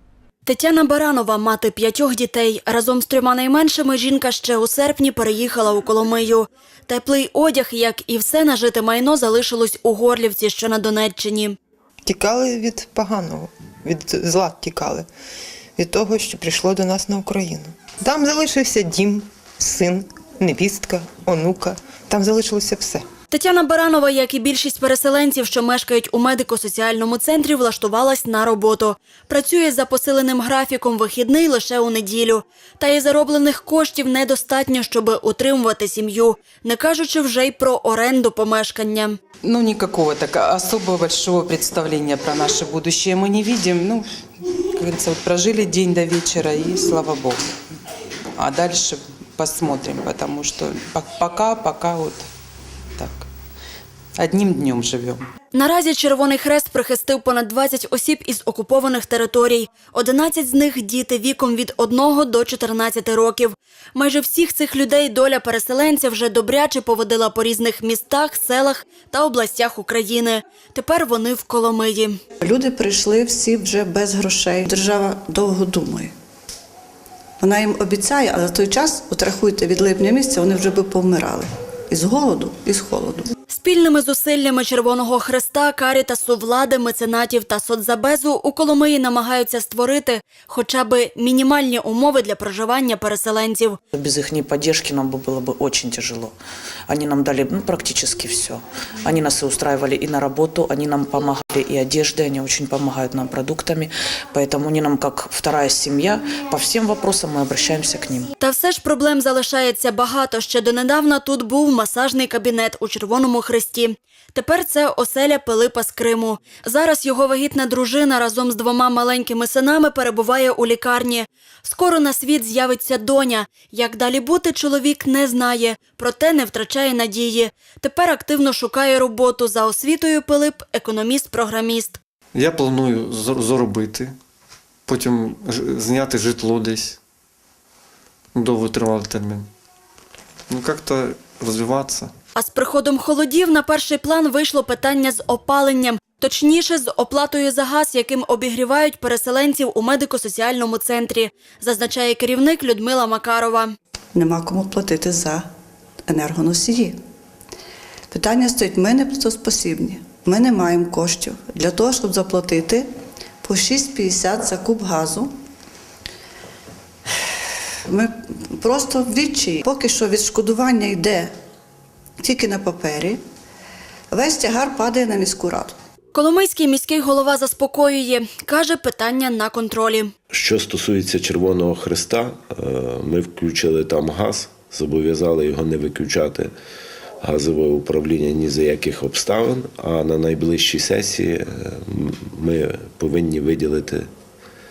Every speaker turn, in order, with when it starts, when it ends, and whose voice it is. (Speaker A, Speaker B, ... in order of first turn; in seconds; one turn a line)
Speaker A: 0.5-11.6
Speaker B: 12.1-15.1
Speaker B: 15.8-23.0
Speaker A: 23.3-39.2
Speaker C: 39.4-44.1
Speaker C: 44.7-47.4
Speaker C: 48.4-52.3
Speaker C: 53.0-53.3
Speaker C: 54.2-55.2
Speaker A: 55.5-72.2
Speaker D: 72.4-76.1
Speaker D: 77.4-83.3
Speaker A: 83.5-93.8
Speaker E: 93.9-96.3
Speaker E: 96.9-108.3
Speaker A: 108.4-132.0
Speaker F: 132.3-134.2
Speaker F: 134.9-137.0
Speaker F: 138.3-139.5
Speaker F: 140.5-142.1
Speaker A: 142.4-153.8
Speaker D: 154.2-155.5
Speaker D: 156.1-157.0
Speaker D: 158.1-162.9
Speaker D: 163.4-165.3
Speaker D: 167.9-171.3
Speaker D: 172.2-173.2
Speaker D: 174.1-175.8
Speaker A: 176.2-180.1
Speaker G: 180.3-186.5
Speaker G: 187.2-194.1